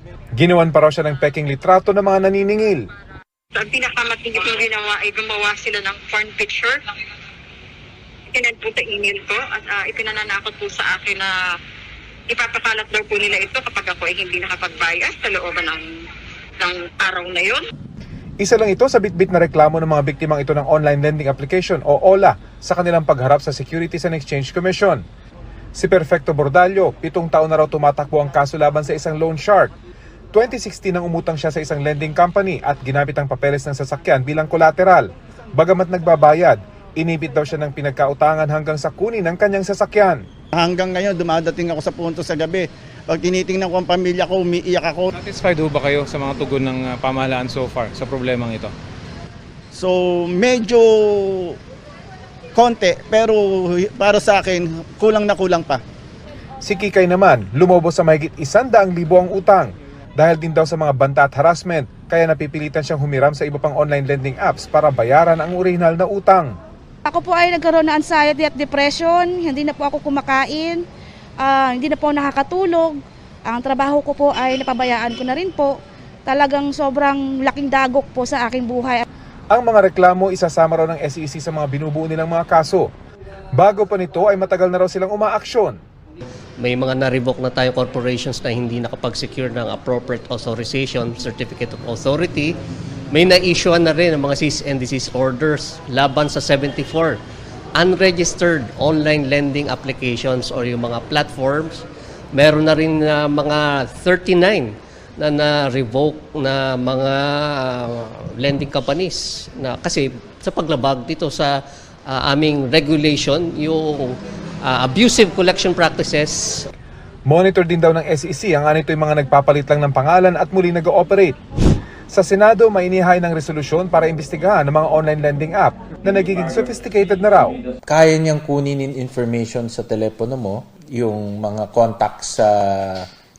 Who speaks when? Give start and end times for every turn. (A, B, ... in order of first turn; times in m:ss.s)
0:00.4-0:02.8 A
0:03.5-0:06.8 B
0:08.3-0:11.3 B
0:12.3-0:15.8 B
0:16.6-0:17.6 B
0:18.4-0:25.0 A
0:25.7-0:29.7 A
0:30.3-0:40.2 A
0:40.5-0:45.1 C
0:45.1-0:48.7 D
0:49.7-0:51.6 C
0:52.5-0:55.8 C
0:56.6-1:06.5 A
1:07.0-1:10.8 E
1:11.4-1:15.7 E
1:16.3-1:19.0 E
1:19.5-1:22.9 A
1:23.6-1:25.8 A
1:26.6-1:32.5 F
1:33.1-1:37.2 F
1:37.8-1:41.8 F
1:42.3-1:56.6 F
1:57.3-2:01.3 A
2:02.1-2:07.6 A
2:07.9-2:13.1 G